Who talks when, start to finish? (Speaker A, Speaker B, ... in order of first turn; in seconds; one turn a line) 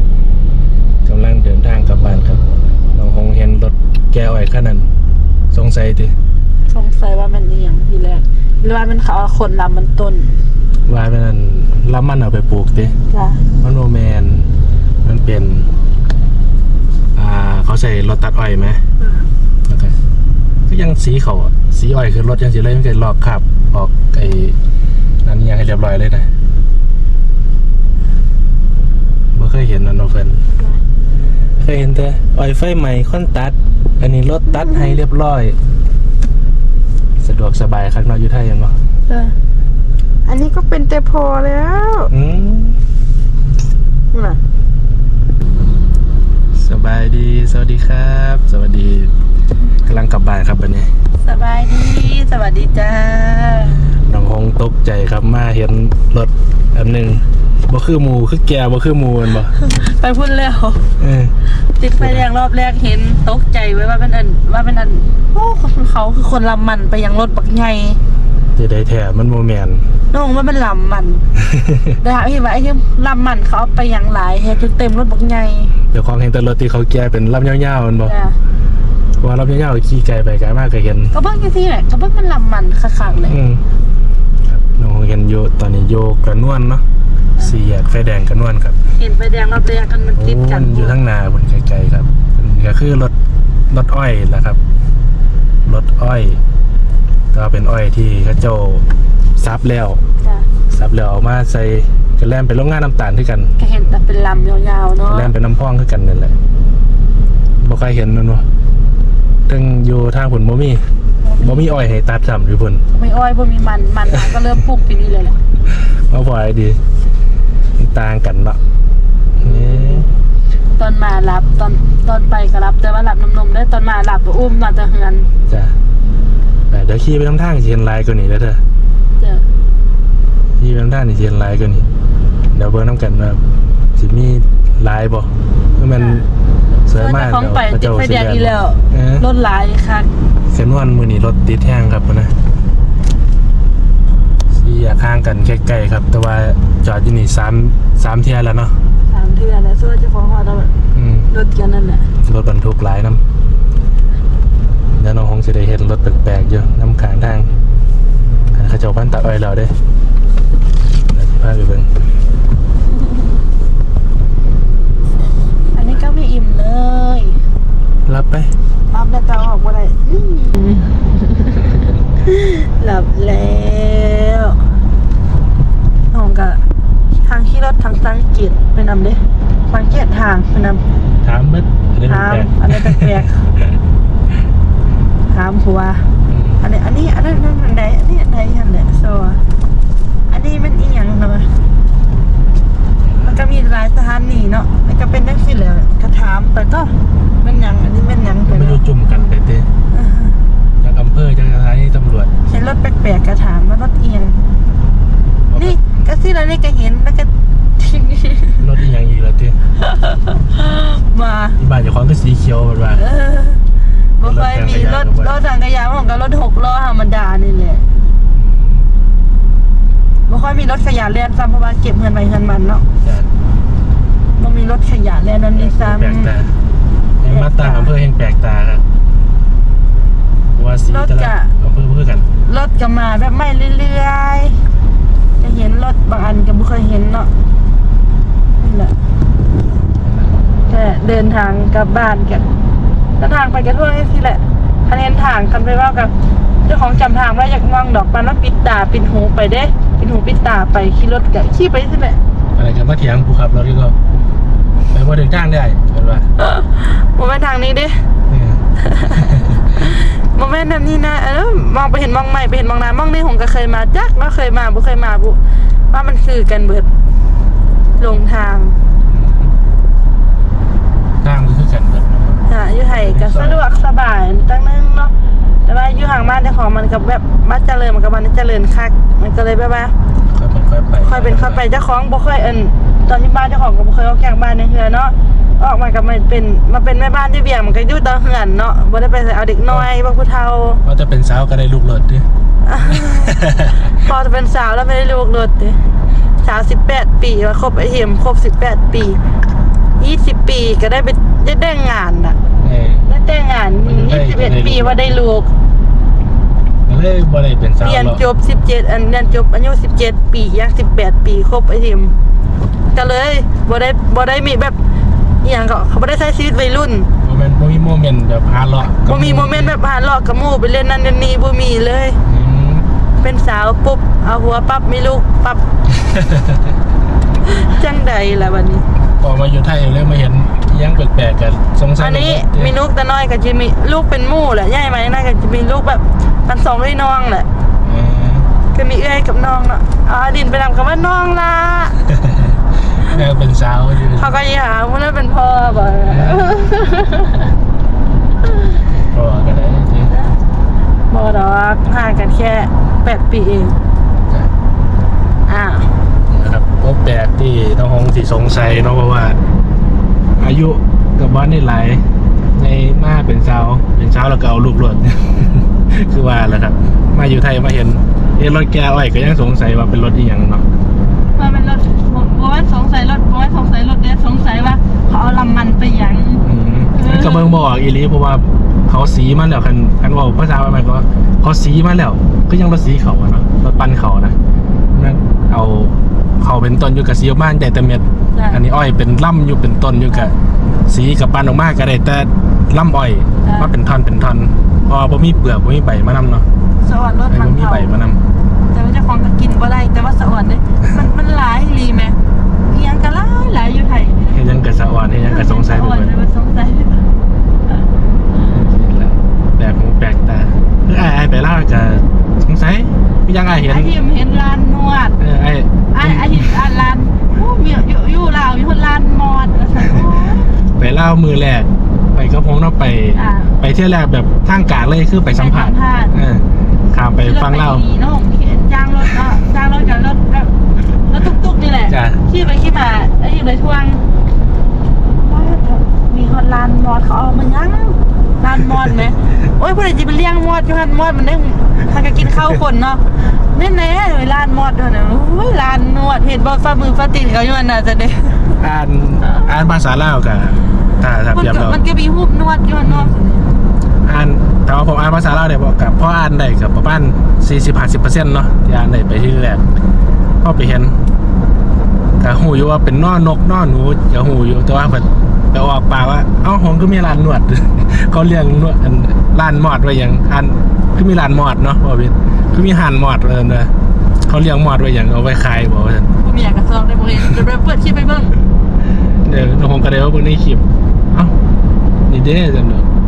Speaker A: 1.0-4.9
Speaker A: 5.5-6.1
Speaker B: 6.7-10.3
Speaker A: 10.9-13.0
Speaker B: 13.1-13.4
Speaker A: 13.6-14.5
Speaker A: 15.0-15.7
Speaker A: 17.2-18.8
Speaker B: 19.0-19.3
Speaker A: 19.7-20.0
Speaker A: 20.7-24.6
Speaker A: 25.2-26.3
Speaker A: 29.3-30.4
Speaker A: 31.6-35.6
Speaker A: 37.2-38.8
Speaker B: 39.1-39.4
Speaker B: 40.2-42.1
Speaker A: 42.1-42.8
Speaker B: 44.1-44.4
Speaker A: 46.6-49.1
Speaker A: 49.9-50.9
Speaker B: 51.2-53.8
Speaker A: 53.9-59.5
Speaker B: 59.5-60.9
Speaker A: 61.0-61.4
Speaker B: 61.8-68.0
Speaker A: 62.0-62.2
Speaker A: 68.6-69.9
Speaker B: 70.1-71.2
Speaker A: 71.5-71.9
Speaker B: 72.0-75.8
Speaker A: 75.9-78.2
Speaker B: 78.1-78.4
Speaker A: 79.2-81.2
Speaker B: 81.1-83.4
Speaker A: 83.2-83.6
Speaker A: 84.4-86.8
Speaker A: 87.4-88.8
Speaker B: 88.9-91.0
Speaker A: 90.2-93.1
Speaker A: 93.7-94.6
Speaker A: 95.7-96.4
Speaker A: 97.3-98.8
Speaker A: 99.4-100.0
Speaker B: 100.2-100.5
Speaker A: 100.7-103.5
Speaker B: 103.6-105.3
Speaker A: 105.1-106.4
Speaker A: 107.6-108.5
Speaker A: 109.5-110.9
Speaker B: 111.2-111.6
Speaker A: 111.4-112.8
Speaker B: 112.9-115.4
Speaker A: 115.7-116.8
Speaker A: 117.8-118.6
Speaker A: 119.4-120.1
Speaker B: 119.4-120.1
Speaker B: 120.8-125.3
Speaker A: 125.5-125.8
Speaker A: 126.7-128.6
Speaker B: 129.2-129.5
Speaker A: 130.6-131.9
Speaker A: 132.5-133.4
Speaker A: 134.0-136.3
Speaker B: 136.0-136.2
Speaker A: 136.9-139.3
Speaker B: 136.9-140.1
Speaker A: 140.5-142.3
Speaker A: 144.6-148.8
Speaker B: 149.1-150.7
Speaker A: 150.9-151.3
Speaker B: 151.3-152.1
Speaker A: 152.2-153.2
Speaker A: 155.0-157.5
Speaker A: 158.5-159.8
Speaker A: 161.1-161.9
Speaker B: 165.7-167.4
Speaker A: 168.1-168.6
Speaker B: 168.9-174.6
Speaker B: 176.1-176.6
Speaker B: 177.2-180.8
Speaker A: 181.2-183.8
Speaker B: 182.1-183.3
Speaker B: 185.3-189.4
Speaker A: 186.3-186.6
Speaker B: 190.3-191.5
Speaker A: 193.0-193.3
Speaker B: 193.2-198.8
Speaker A: 198.4-199.7
Speaker B: 199.9-200.4
Speaker A: 200.8-202.3
Speaker B: 202.5-204.4
Speaker A: 205.5-205.8
Speaker B: 205.6-208.6
Speaker A: 208.6-209.6
Speaker B: 209.8-211.6
Speaker A: 211.6-213.1
Speaker B: 213.0-213.6
Speaker B: 214.2-217.8
Speaker A: 214.2-215.3
Speaker A: 218.3-218.9
Speaker B: 220.3-222.9
Speaker A: 223.0-223.3
Speaker B: 224.4-226.3
Speaker A: 225.6-226.6
Speaker A: 227.2-228.8
Speaker B: 227.3-227.9
Speaker A: 230.6-232.3
Speaker B: 230.9-231.5
Speaker B: 232.5-234.6
Speaker B: 235.4-237.3
Speaker B: 238.6-238.9
Speaker A: 240.0-240.5
Speaker B: 240.7-242.5
Speaker B: 243.2-246.1
Speaker B: 246.7-252.2
Speaker A: 252.6-254.0
Speaker A: 254.9-256.3
Speaker B: 256.4-258.1
Speaker A: 258.3-258.6
Speaker B: 258.8-266.9
Speaker A: 259.2-259.6
Speaker B: 268.0-268.8
Speaker A: 269.1-269.5
Speaker A: 271.2-273.6
Speaker B: 272.5-275.1
Speaker B: 275.7-279.9
Speaker A: 280.3-281.6
Speaker B: 281.0-290.8
Speaker A: 290.8-292.3
Speaker B: 292.6-293.4
Speaker A: 292.8-294.0
Speaker B: 293.9-295.8
Speaker B: 296.4-299.2
Speaker B: 300.0-302.4
Speaker A: 302.6-303.1
Speaker B: 303.1-305.5
Speaker A: 303.8-305.2
Speaker A: 306.9-308.2
Speaker B: 307.8-312.1
Speaker B: 312.9-314.8
Speaker B: 315.4-317.1
Speaker A: 317.2-319.8
Speaker B: 319.1-322.2
Speaker A: 322.3-322.9
Speaker B: 323.2-325.6
Speaker A: 326.0-326.6
Speaker B: 327.4-328.9
Speaker A: 329.2-332.7
Speaker B: 332.0-337.5
Speaker A: 337.8-338.5
Speaker B: 338.7-342.0
Speaker A: 342.3-344.3
Speaker B: 344.1-347.5
Speaker A: 346.1-346.5
Speaker A: 349.0-350.1
Speaker B: 351.1-353.8
Speaker B: 355.5-355.9
Speaker A: 356.3-359.4
Speaker A: 360.4-362.1
Speaker A: 362.6-370.7
Speaker B: 371.4-377.5
Speaker A: 376.4-384.4
Speaker A: 384.9-396.5
Speaker B: 388.3-388.6
Speaker B: 393.4-393.7
Speaker B: 396.8-397.9
Speaker A: 397.3-398.2
Speaker B: 398.7-404.4
Speaker A: 404.3-406.1
Speaker B: 405.3-407.1
Speaker A: 408.5-413.9
Speaker B: 413.6-415.2
Speaker A: 415.2-416.6
Speaker B: 415.9-420.5
Speaker A: 420.8-427.9
Speaker B: 423.1-423.6
Speaker B: 425.4-426.2
Speaker B: 427.2-434.0
Speaker A: 431.9-432.2
Speaker B: 435.2-448.6
Speaker A: 448.6-451.8
Speaker B: 451.3-453.5
Speaker A: 452.8-453.1
Speaker A: 454.0-459.6
Speaker A: 460.4-461.0
Speaker A: 462.2-476.1
Speaker B: 476.2-478.4
Speaker A: 479.2-481.4
Speaker A: 482.1-482.9